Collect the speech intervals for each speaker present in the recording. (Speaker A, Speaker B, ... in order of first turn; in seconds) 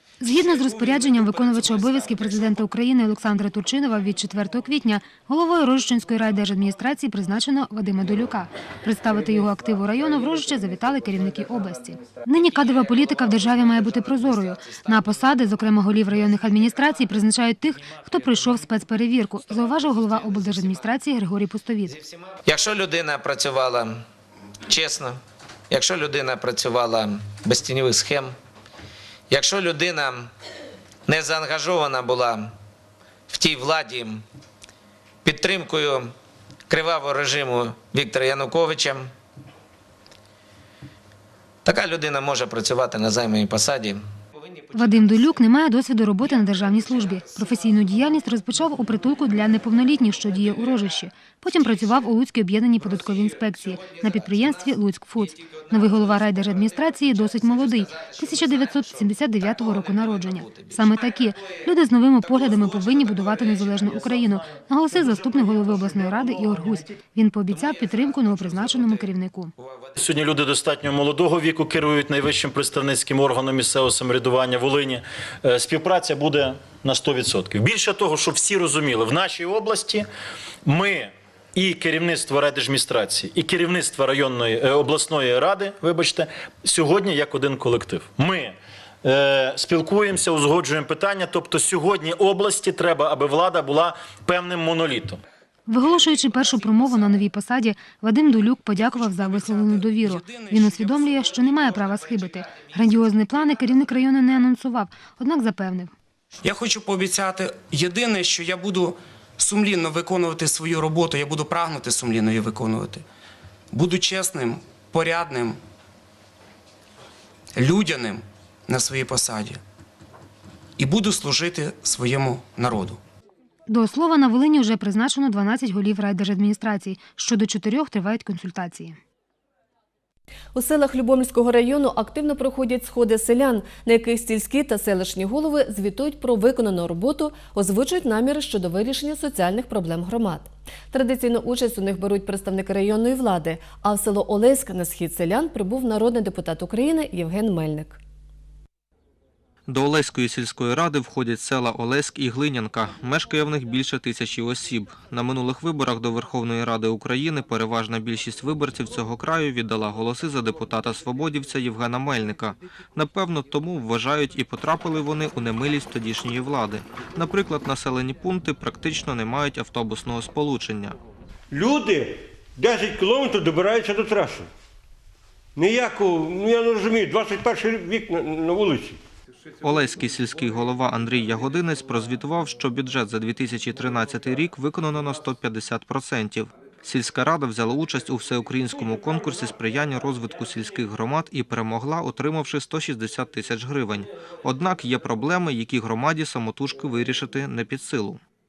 Speaker A: 0.2-22.0, 44.7-69.5, 95.7-105.9, 123.7-129.0
Speaker B: 22.4-24.0, 24.7-25.2, 25.7-28.4, 29.3-30.3, 31.1-32.5, 33.3-34.2, 35.2-36.1, 36.7-39.1, 41.6-44.0
Speaker C: 70.0-80.1, 80.7-95.2
Speaker D: 100.0-100.6, 106.4-113.0, 113.7-115.6, 117.6-119.6, 120.8-123.0
Speaker E: 130.6-148.0
Speaker F: 149.7-171.0, 179.6-198.2
Speaker G: 171.5-172.1, 172.6-174.4, 175.6-179.0